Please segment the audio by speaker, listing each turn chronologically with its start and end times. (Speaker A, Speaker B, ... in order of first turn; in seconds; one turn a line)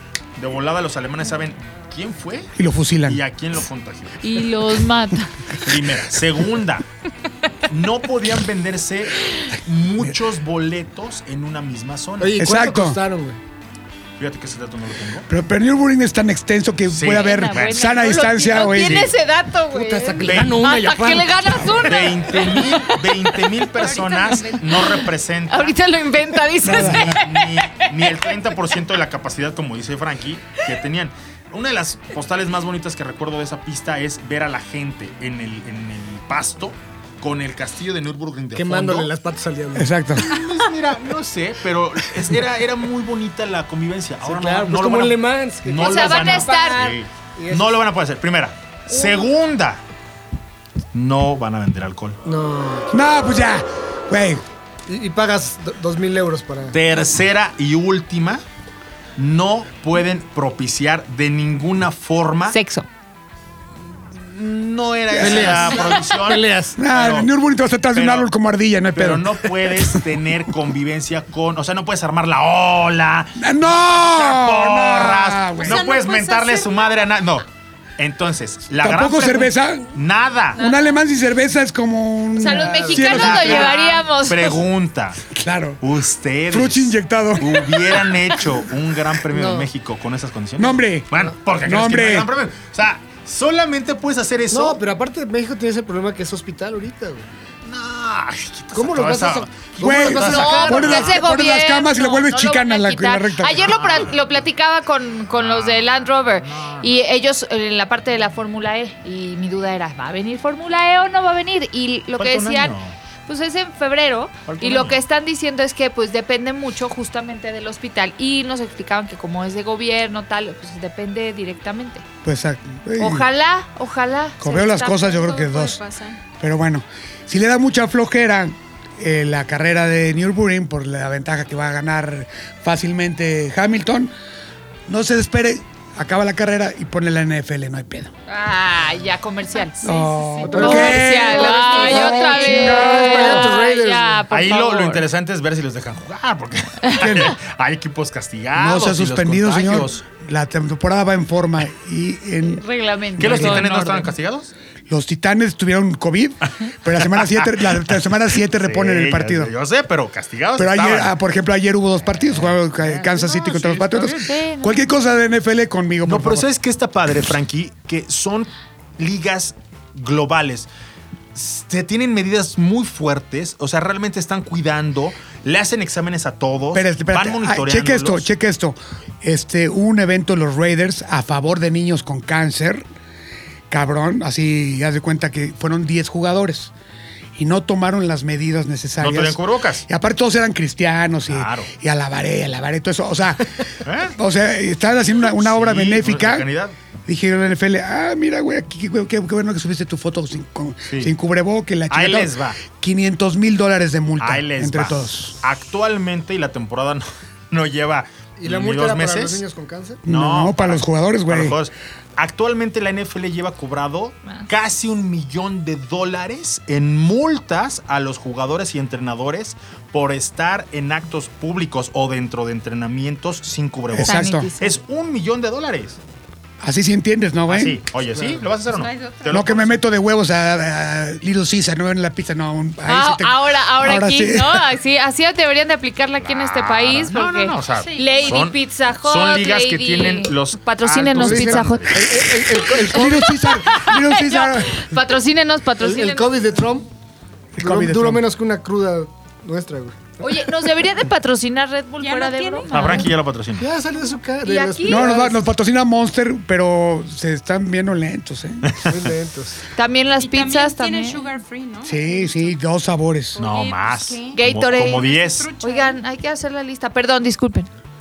Speaker A: 0.4-2.5
Speaker B: 2.6-3.2
Speaker A: 3.1-4.2
Speaker C: 4.2-5.3
Speaker A: 5.6-6.8
Speaker A: 7.7-12.4
Speaker D: 12.2-13.4
Speaker B: 12.4-13.0
Speaker A: 14.2-15.3
Speaker B: 15.3-19.1
Speaker A: 16.9-18.0
Speaker C: 17.2-24.9
Speaker D: 19.7-21.9
Speaker A: 20.2-20.7
Speaker A: 21.6-25.8
Speaker E: 23.9-24.6
Speaker C: 25.5-27.9
Speaker B: 26.6-27.2
Speaker A: 26.6-39.1
Speaker D: 38.5-39.9
Speaker B: 39.8-40.3
Speaker A: 40.2-49.8
Speaker D: 44.2-47.7
Speaker C: 45.8-46.9
Speaker A: 50.9-52.2
Speaker D: 52.2-52.9
Speaker B: 52.9-54.4
Speaker D: 54.9-56.8
Speaker A: 56.7-58.4
Speaker A: 59.2-62.6
Speaker C: 62.5-62.9
Speaker A: 64.0-67.3
Speaker B: 65.1-65.8
Speaker D: 65.2-66.8
Speaker B: 66.8-70.0
Speaker A: 67.9-68.3
Speaker A: 68.9-77.4
Speaker B: 73.4-75.8
Speaker C: 75.6-76.7
Speaker E: 75.7-76.2
Speaker A: 78.0-80.6
Speaker B: 78.8-79.9
Speaker B: 80.5-83.8
Speaker C: 82.4-84.5
Speaker D: 82.6-83.3
Speaker A: 83.1-85.3
Speaker B: 85.3-85.8
Speaker A: 85.8-94.8
Speaker B: 86.5-88.0
Speaker D: 89.3-89.7
Speaker B: 90.6-91.1
Speaker B: 91.6-92.3
Speaker D: 94.5-97.3
Speaker A: 97.6-101.2
Speaker D: 98.7-101.1
Speaker B: 99.8-104.0
Speaker C: 100.2-122.0
Speaker A: 103.6-104.1
Speaker A: 105.3-107.0
Speaker A: 112.2-113.0
Speaker A: 114.5-115.0
Speaker B: 122.2-123.3
Speaker C: 123.0-125.2
Speaker B: 124.4-125.8
Speaker E: 124.9-126.2
Speaker B: 126.4-134.1
Speaker B: 134.9-138.1
Speaker C: 138.3-145.0
Speaker B: 139.8-143.5
Speaker E: 139.8-140.3
Speaker D: 140.4-144.2
Speaker A: 144.3-150.0
Speaker B: 147.0-147.3
Speaker B: 148.6-152.6
Speaker C: 152.4-154.1
Speaker B: 153.2-153.7
Speaker A: 153.2-154.5
Speaker B: 154.9-159.5
Speaker A: 157.1-157.7
Speaker A: 158.5-161.2
Speaker B: 160.6-166.4
Speaker A: 162.2-164.2
Speaker C: 164.1-164.9
Speaker A: 166.0-170.7
Speaker A: 171.3-178.3
Speaker B: 176.7-182.8
Speaker B: 183.7-186.7
Speaker B: 187.4-196.4
Speaker A: 189.0-189.8
Speaker A: 191.3-191.7
Speaker A: 193.8-194.1
Speaker A: 195.3-196.7
Speaker B: 197.1-205.4
Speaker A: 200.9-201.1
Speaker A: 201.9-202.6
Speaker A: 204.2-209.4
Speaker D: 208.4-210.0
Speaker B: 210.0-211.6
Speaker A: 210.1-226.0
Speaker B: 223.9-224.5
Speaker C: 224.0-224.8
Speaker B: 226.6-227.8
Speaker A: 227.5-229.8
Speaker D: 228.1-228.4
Speaker E: 228.7-229.4
Speaker B: 229.3-234.7
Speaker C: 232.9-242.0
Speaker A: 236.2-242.0
Speaker E: 237.7-238.5
Speaker D: 241.1-243.3
Speaker B: 242.6-244.8
Speaker C: 243.0-246.4
Speaker D: 245.8-246.9
Speaker B: 247.6-248.2
Speaker D: 247.6-250.5
Speaker C: 250.2-253.1
Speaker E: 252.0-253.1
Speaker A: 252.7-253.7
Speaker D: 253.6-255.4
Speaker C: 254.4-255.2
Speaker B: 254.8-258.7
Speaker A: 258.6-258.9
Speaker D: 258.8-259.6
Speaker C: 259.7-261.2
Speaker E: 260.2-262.5
Speaker B: 261.8-263.4
Speaker E: 263.3-266.0
Speaker A: 263.4-265.5
Speaker C: 264.3-265.1
Speaker C: 265.6-267.7